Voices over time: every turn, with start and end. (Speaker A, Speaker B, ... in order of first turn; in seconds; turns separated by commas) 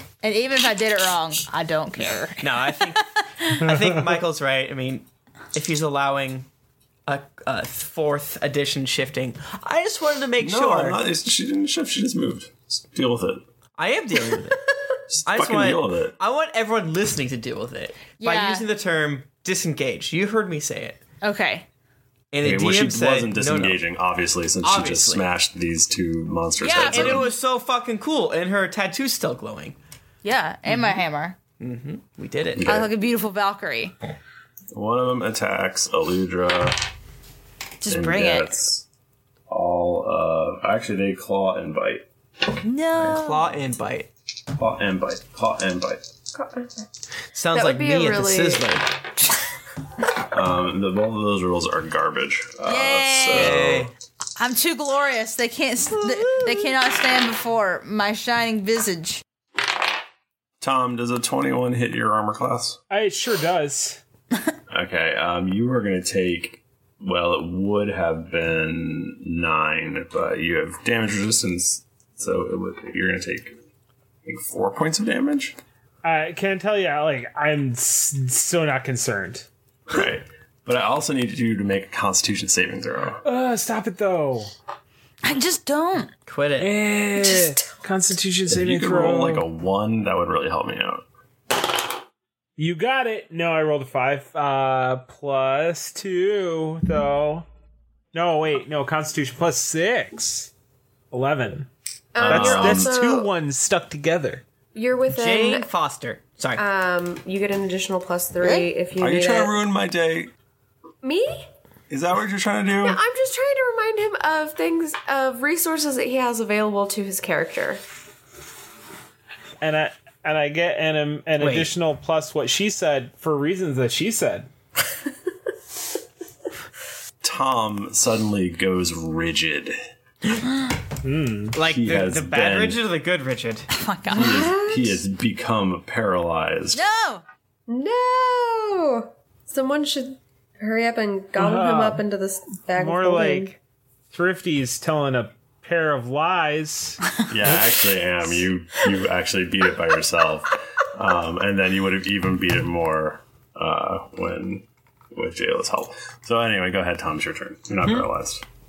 Speaker A: 0.2-3.6, Speaker B: 2.4-3.0, Speaker B: 3.5-6.5, Speaker B: 7.1-11.0, Speaker C: 10.4-13.4, Speaker B: 13.8-14.6, Speaker C: 15.1-16.1, Speaker B: 15.2-21.0, Speaker A: 18.2-18.6, Speaker A: 21.2-21.6, Speaker B: 22.3-23.8, Speaker C: 22.4-27.3, Speaker B: 24.6-25.2, Speaker A: 26.6-27.4, Speaker B: 26.8-29.8, Speaker A: 30.2-31.4, Speaker B: 30.7-31.0, Speaker B: 31.6-32.7, Speaker C: 32.6-32.9, Speaker A: 32.6-33.9, Speaker C: 34.7-36.8, Speaker A: 37.8-38.5, Speaker C: 37.9-38.8, Speaker C: 39.5-42.0, Speaker A: 42.6-43.5, Speaker B: 43.1-44.1, Speaker C: 44.5-46.0, Speaker D: 46.3-46.7, Speaker B: 47.3-48.9, Speaker D: 47.5-48.7, Speaker C: 50.3-53.9, Speaker A: 52.6-53.5, Speaker B: 53.3-53.9, Speaker A: 54.4-59.2, Speaker B: 56.0-56.7, Speaker C: 60.6-62.8, Speaker E: 62.9-64.0, Speaker C: 64.7-73.6, Speaker C: 74.2-75.5, Speaker E: 76.0-79.5, Speaker C: 79.9-83.2, Speaker E: 83.2-84.5, Speaker A: 85.2-86.1, Speaker B: 86.3-86.7, Speaker E: 86.6-89.4, Speaker D: 87.2-87.6, Speaker C: 88.5-91.0, Speaker E: 92.6-97.5, Speaker E: 98.1-100.5, Speaker E: 101.1-101.7, Speaker D: 102.1-103.3, Speaker C: 102.2-103.0, Speaker E: 102.2-104.4, Speaker D: 104.7-105.7, Speaker B: 105.1-106.6, Speaker D: 106.6-109.6, Speaker A: 108.4-108.7, Speaker C: 109.0-110.3, Speaker D: 111.0-111.5, Speaker C: 111.9-113.0, Speaker D: 112.8-117.8, Speaker E: 119.6-124.5, Speaker B: 121.4-121.7, Speaker C: 127.2-129.8, Speaker E: 131.0-131.5, Speaker B: 131.5-133.7, Speaker C: 131.6-132.8, Speaker A: 133.7-134.6, Speaker C: 134.1-136.8, Speaker D: 134.2-135.0, Speaker A: 136.7-137.2, Speaker D: 137.7-143.5, Speaker E: 141.4-142.0, Speaker E: 142.8-143.6, Speaker E: 144.1-147.0, Speaker C: 147.3-158.4